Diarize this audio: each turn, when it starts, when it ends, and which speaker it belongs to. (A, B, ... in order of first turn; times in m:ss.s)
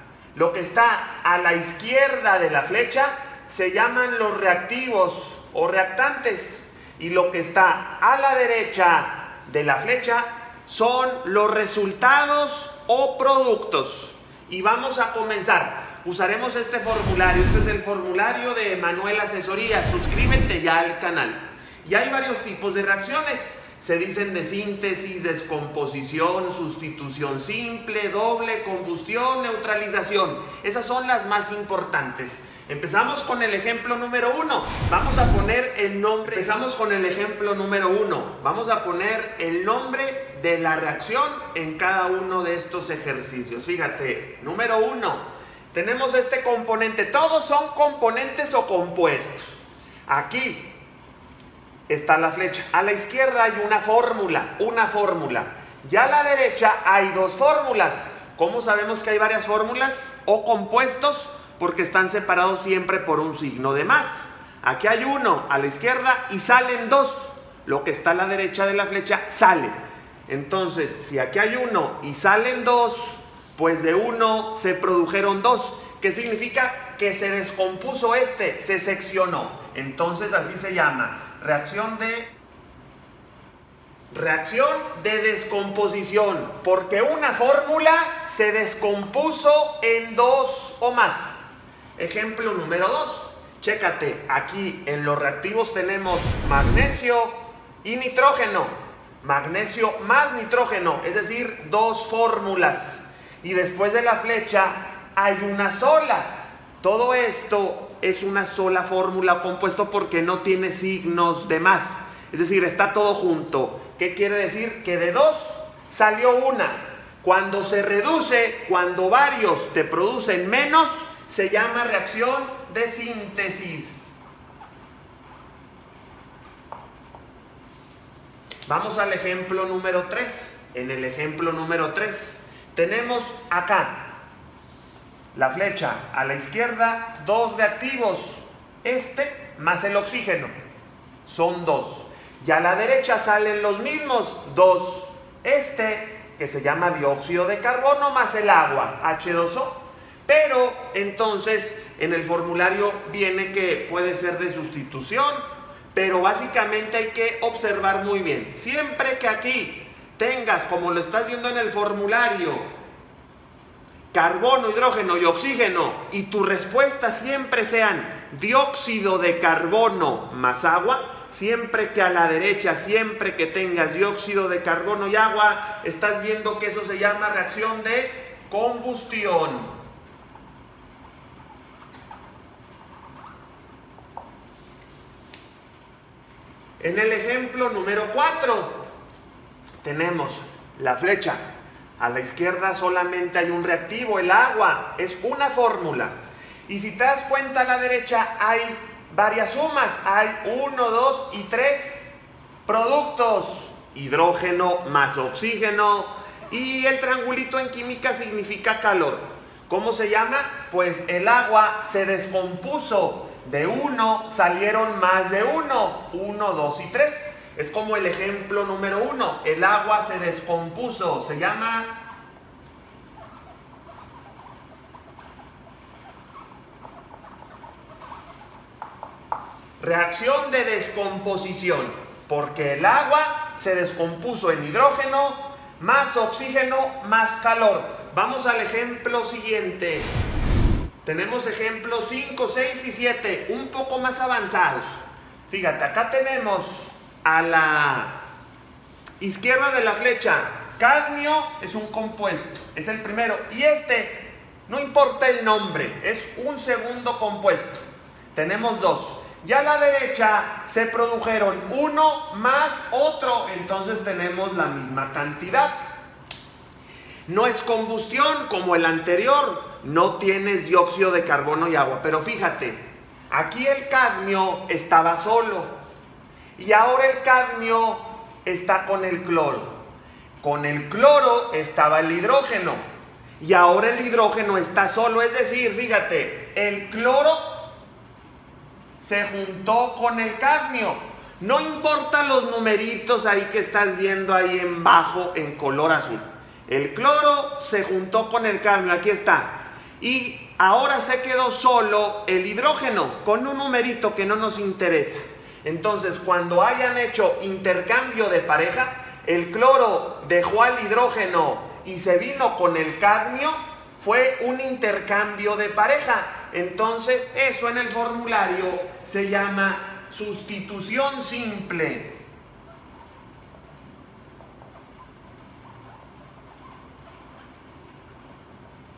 0:00.3-0:50.7 A
0:51.9-1:09.7 A
1:10.3-1:22.3 A
1:24.1-1:31.3 A
1:32.0-2:04.0 A
2:08.7-2:14.1 A
2:15.3-2:20.5 A
2:21.2-2:42.7 A
2:44.1-2:59.7 A
3:06.8-3:08.8 A
3:09.8-3:11.4 A
3:12.0-3:16.1 A
3:16.7-3:22.0 A
3:22.6-3:41.9 A
3:49.8-4:00.1 A
4:01.0-4:04.9 A
4:05.5-4:08.2 A
4:09.2-4:17.8 A
4:18.3-4:25.8 A
4:27.3-4:35.8 A
4:36.6-4:39.8 A
4:40.4-4:42.8 A
4:43.4-4:47.7 A
4:49.0-5:22.2 A